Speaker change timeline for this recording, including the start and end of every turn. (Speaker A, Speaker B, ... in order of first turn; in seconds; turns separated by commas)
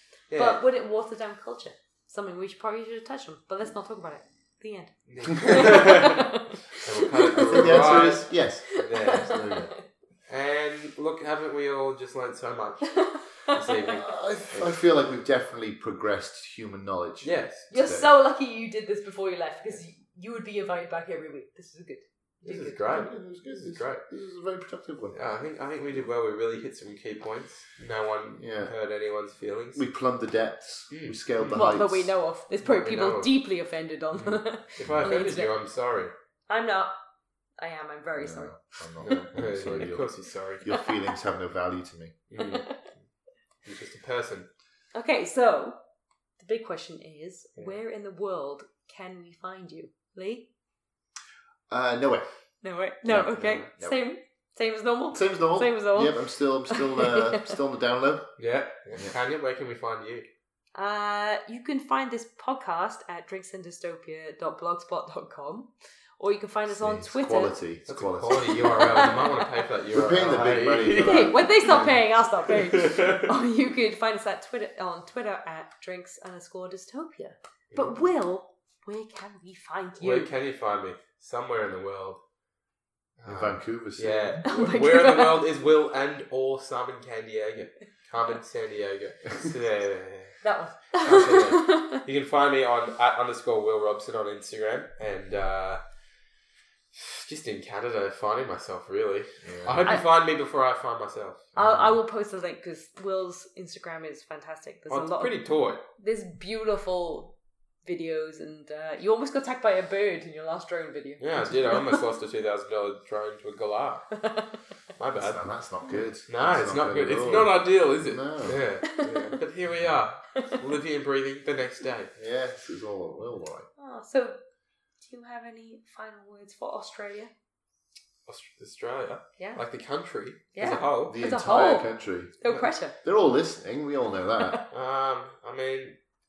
Speaker A: 0.3-0.6, Speaker B: 0.3-9.7, Speaker A: 5.1-9.4, Speaker C: 7.4-9.7, Speaker A: 10.3-14.7, Speaker B: 12.9-13.8, Speaker C: 13.9-18.1, Speaker A: 17.2-17.7, Speaker B: 17.7-23.1, Speaker A: 22.4-24.0, Speaker C: 22.5-25.2, Speaker A: 25.1-29.8, Speaker C: 28.4-28.7, Speaker C: 29.8-32.1, Speaker A: 30.9-31.6, Speaker B: 31.5-35.5, Speaker A: 32.6-33.3, Speaker A: 34.8-36.1, Speaker C: 34.8-35.2, Speaker B: 36.5-36.9, Speaker B: 37.6-38.5, Speaker C: 38.2-40.1, Speaker A: 39.0-40.6, Speaker C: 40.6-42.2, Speaker A: 42.3-42.9, Speaker B: 42.4-42.8, Speaker A: 43.6-44.5, Speaker B: 44.9-45.8, Speaker B: 46.4-50.5, Speaker C: 51.7-52.2, Speaker B: 52.6-57.6, Speaker C: 53.0-54.0, Speaker C: 55.1-58.3, Speaker A: 58.4-60.3, Speaker B: 60.8-67.5, Speaker C: 66.7-68.8, Speaker A: 67.9-73.3, Speaker B: 68.4-69.3, Speaker C: 69.9-72.0, Speaker B: 71.0-80.3, Speaker A: 80.0-82.2, Speaker A: 83.2-90.4, Speaker C: 83.3-84.4, Speaker B: 84.4-85.5, Speaker B: 90.4-92.0, Speaker A: 90.9-95.8, Speaker A: 96.9-101.5, Speaker C: 99.4-100.0, Speaker C: 101.5-101.9, Speaker B: 101.6-105.4, Speaker A: 104.9-105.8, Speaker B: 106.0-112.0, Speaker A: 111.2-114.0, Speaker B: 114.2-114.6, Speaker A: 115.0-115.4, Speaker C: 115.2-118.6, Speaker A: 116.3-122.1, Speaker B: 118.8-119.2, Speaker C: 122.2-123.7, Speaker B: 123.8-124.4, Speaker B: 125.0-127.3, Speaker A: 128.3-131.2, Speaker B: 130.6-132.9, Speaker C: 131.1-132.3, Speaker C: 133.0-134.6, Speaker B: 134.4-134.7, Speaker A: 134.7-136.0